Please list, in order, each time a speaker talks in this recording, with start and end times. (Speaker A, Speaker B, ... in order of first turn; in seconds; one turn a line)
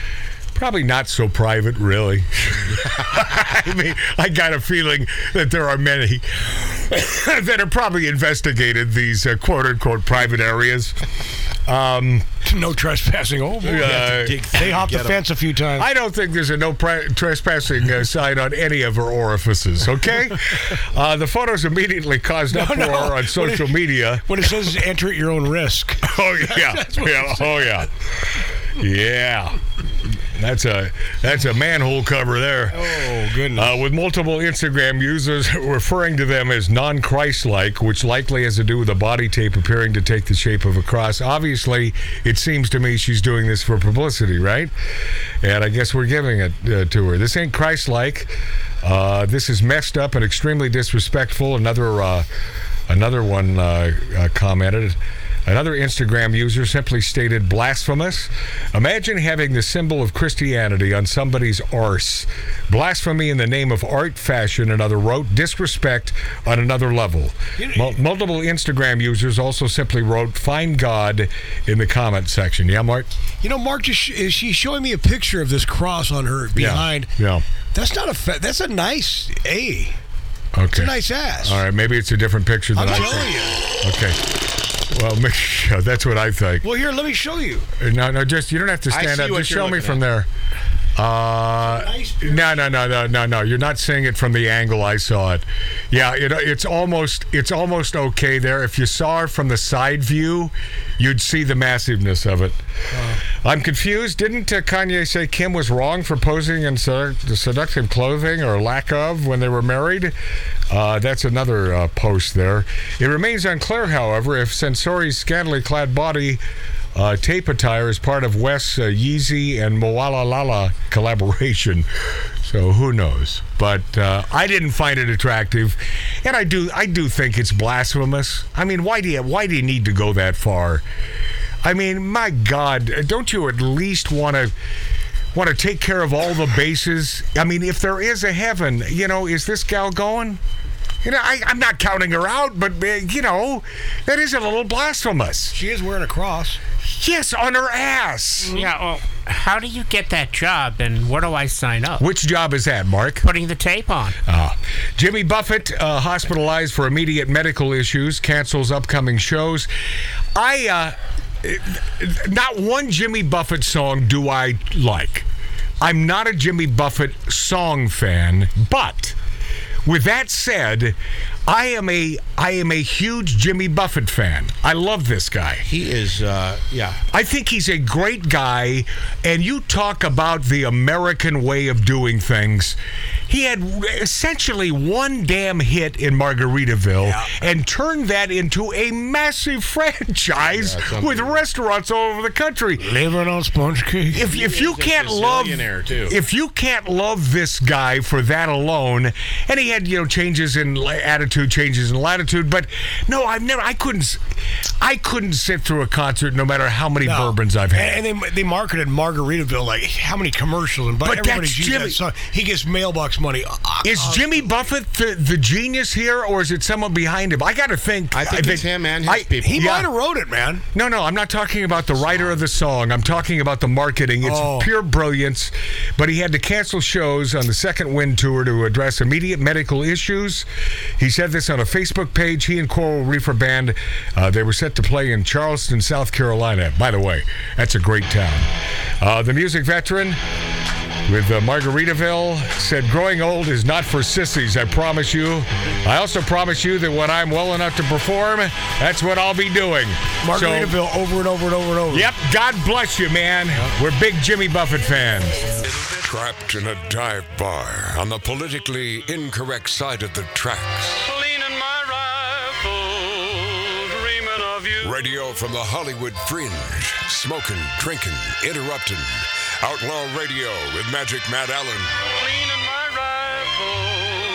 Speaker A: 0.5-11.0
Speaker A: 11.7-12.3
Speaker B: 12.4-15.9
Speaker A: 13.6-14.4
Speaker C: 13.8-15.2
Speaker A: 15.8-24.4
Speaker B: 22.5-27.8
Speaker A: 26.0-29.6
Speaker A: 30.1-44.7
Speaker B: 32.7-33.8
Speaker A: 45.4-52.3
Speaker A: 52.9-73.1
Speaker B: 67.6-68.0
Speaker B: 73.4-77.1
Speaker A: 76.5-77.4
Speaker B: 77.7-80.0
Speaker A: 80.5-84.3
Speaker B: 80.7-81.6
Speaker B: 82.8-83.8
Speaker A: 84.8-86.7
Speaker B: 86.6-87.7
Speaker A: 87.8-90.3
Speaker C: 88.9-90.0
Speaker A: 91.0-102.6
Speaker B: 91.6-92.8
Speaker B: 102.9-103.2
Speaker A: 103.4-110.2
Speaker A: 110.7-116.4
Speaker A: 117.0-130.8
Speaker A: 131.6-134.5
Speaker A: 135.3-140.4
Speaker A: 141.0-145.6
Speaker B: 145.5-146.6
Speaker A: 146.8-148.6
Speaker B: 148.4-148.7
Speaker D: 148.5-152.1
Speaker A: 152.0-153.3
Speaker D: 153.2-154.2
Speaker A: 154.2-159.7
Speaker A: 160.4-165.3
Speaker A: 165.8-169.2
Speaker A: 169.8-171.0
Speaker A: 171.5-175.7
Speaker C: 175.7-177.0
Speaker A: 177.1-192.9
Speaker B: 187.0-187.4
Speaker C: 190.4-191.4
Speaker B: 192.8-194.4
Speaker A: 194.1-204.2
Speaker C: 194.2-196.2
Speaker A: 204.8-208.0
Speaker B: 207.0-214.5
Speaker A: 211.0-212.0
Speaker A: 213.8-219.9
Speaker C: 218.1-219.6
Speaker B: 219.4-220.6
Speaker A: 220.7-230.5
Speaker B: 224.2-224.7
Speaker A: 231.0-238.5
Speaker A: 239.0-240.2
Speaker A: 241.1-250.8
Speaker B: 250.2-252.1
Speaker A: 251.9-255.5
Speaker E: 255.9-261.1
Speaker F: 261.1-263.0
Speaker F: 263.9-264.9
Speaker E: 264.8-272.0
Speaker F: 272.2-273.9